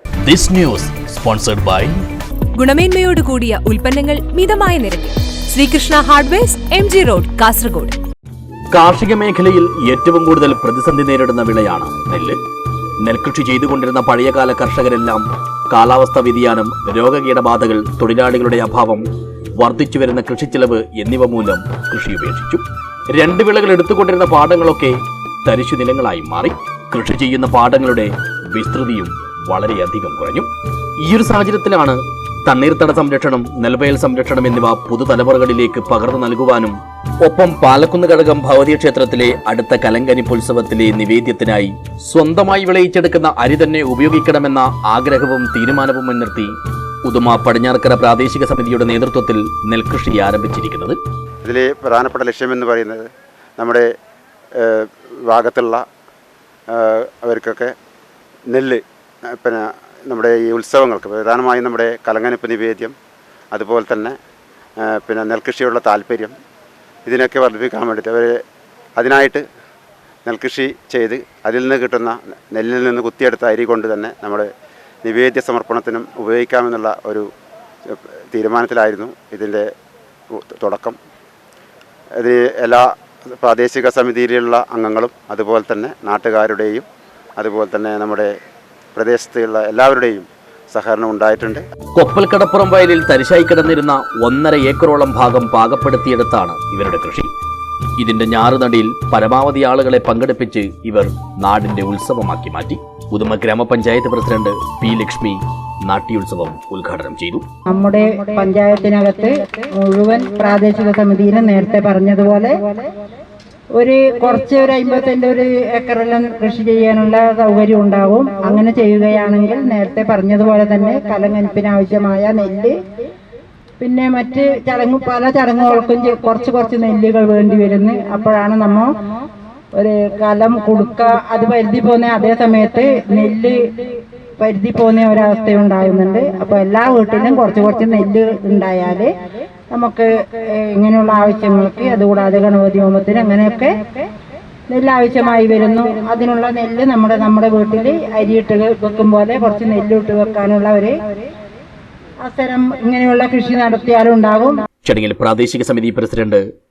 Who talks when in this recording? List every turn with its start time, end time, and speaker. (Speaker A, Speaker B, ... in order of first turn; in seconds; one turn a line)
Speaker A: 0.2-2.0
Speaker B: 2.5-8.0
Speaker A: 8.7-12.4
Speaker A: 13.0-30.5
Speaker A: 31.0-46.5
Speaker A: 47.0-51.0
Speaker C: 51.4-53.9
Speaker C: 54.6-55.8
Speaker C: 56.7-57.7
Speaker C: 58.5-63.0
Speaker C: 63.5-64.2
Speaker C: 64.8-66.3
Speaker C: 67.0-68.4
Speaker C: 69.0-69.4
Speaker C: 70.2-74.5
Speaker C: 75.0-77.3
Speaker C: 77.9-79.7
Speaker C: 80.3-81.0
Speaker C: 82.2-86.9
Speaker C: 87.4-88.3
Speaker C: 89.0-91.6
Speaker A: 92.0-97.3
Speaker A: 98.0-107.5
Speaker D: 107.7-112.8
Speaker D: 113.8-123.0
Speaker D: 123.8-128.9
Speaker D: 129.8-139.1
Speaker D: 139.7-144.1
Speaker D: 144.7-151.1
Speaker D: 152.2-154.6
Speaker A: 154.8-156.4